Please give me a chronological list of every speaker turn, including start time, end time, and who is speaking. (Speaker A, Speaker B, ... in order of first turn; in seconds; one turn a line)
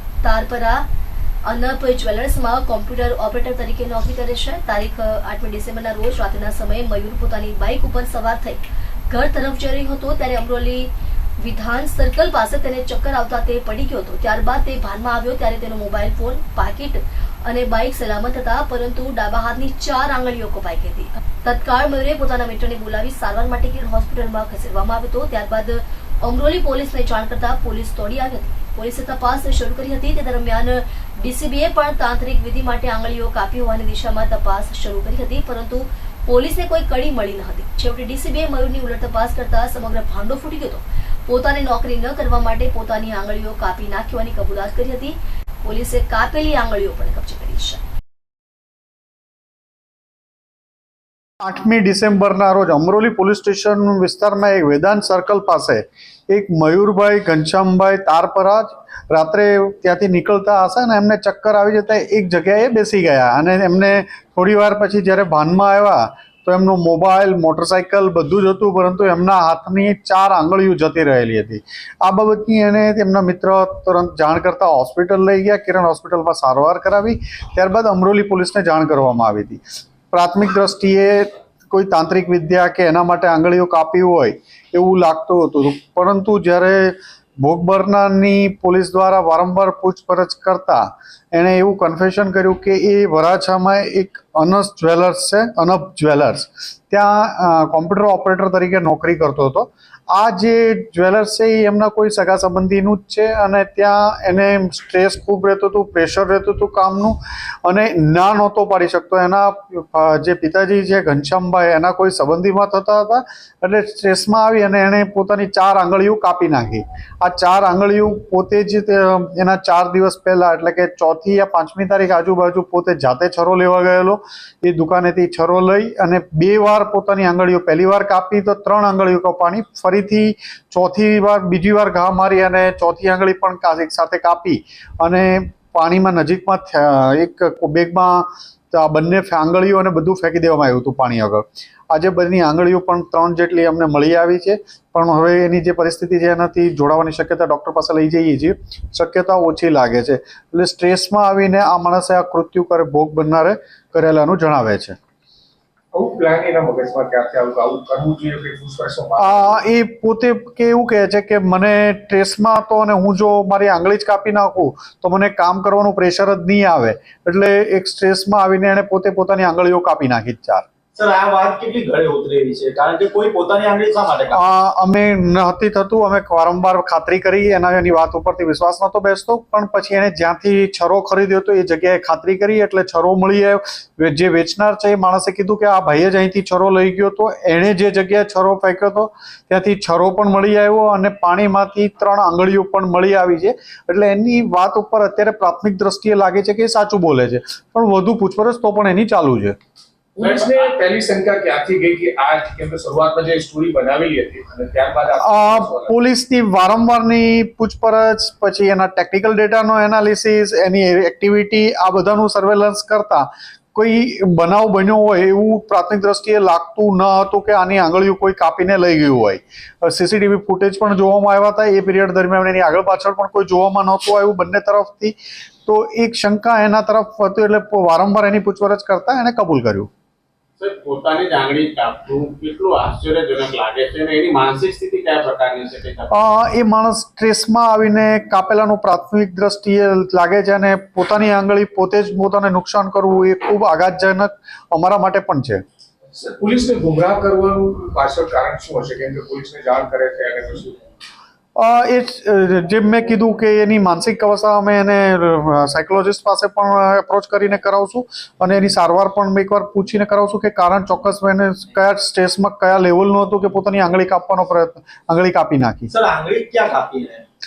Speaker A: 0.2-0.8
Speaker A: 1.5-10.9
Speaker A: 11.4-47.8
Speaker B: 51.4-155.0
Speaker C: 155.9-159.6
Speaker B: 159.2-170.7
Speaker D: 170.9-174.4
Speaker B: 174.3-199.6
Speaker C: 200.2-205.9
Speaker E: 200.2-200.7
Speaker B: 205.2-225.1
Speaker B: 225.7-229.9
Speaker E: 230.6-236.1
Speaker B: 236.1-245.6
Speaker C: 246.1-250.8
Speaker B: 251.6-265.9
Speaker D: 265.9-267.2